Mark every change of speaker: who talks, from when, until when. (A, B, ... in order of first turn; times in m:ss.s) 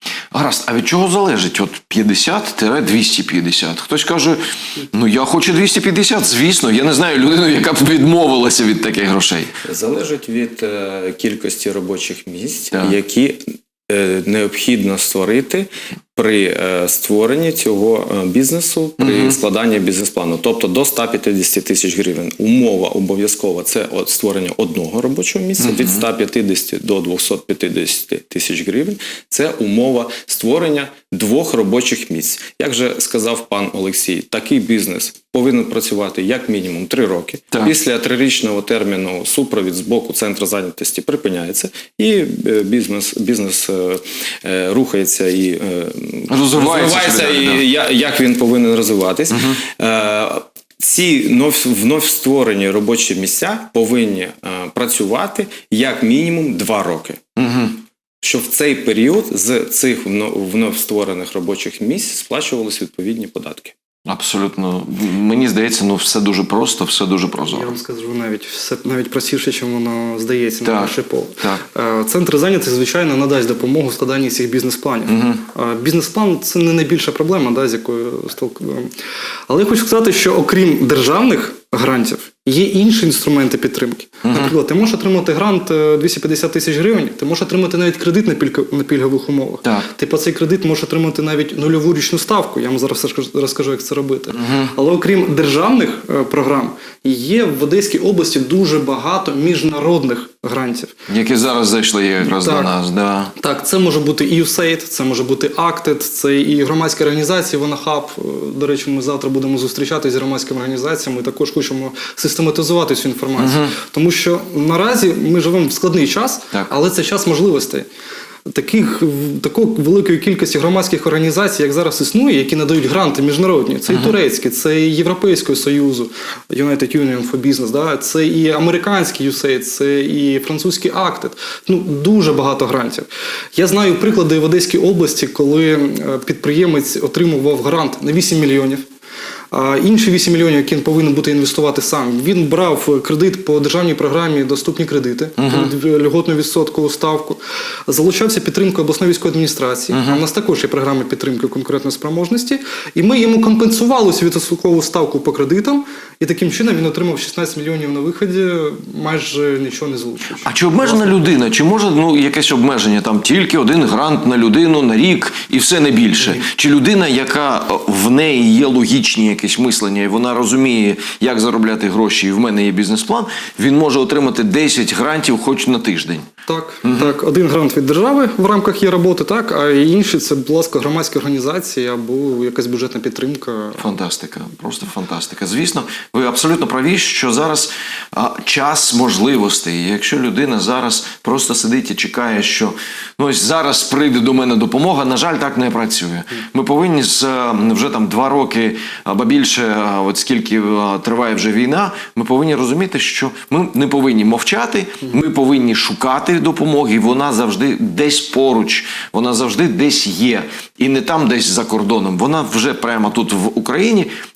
0:00.3-0:09.5 A
0:09.6-0:57.3 B
0:19.0-0:19.4 A
0:25.6-0:26.0 A
0:46.3-0:47.6 A
0:57.4-0:57.8 A
0:58.2-1:03.7 B
1:04.0-1:07.7 A
1:07.5-1:18.9 C
1:10.6-1:11.6 A
1:15.1-1:15.4 A
1:19.5-1:40.9 C
1:24.2-1:24.5 A
1:34.3-1:34.7 A
1:41.1-1:43.3 A
1:42.2-1:42.7 C
1:43.4-1:57.8 C
1:53.4-1:53.7 A
1:58.5-2:18.8 C
2:03.9-2:04.1 A
2:19.5-2:41.1 C
2:25.4-2:25.7 A
2:29.9-2:30.2 A
2:40.4-2:56.3 A
2:56.5-3:03.9 C
2:56.8-2:57.2 A
3:03.8-3:34.1 A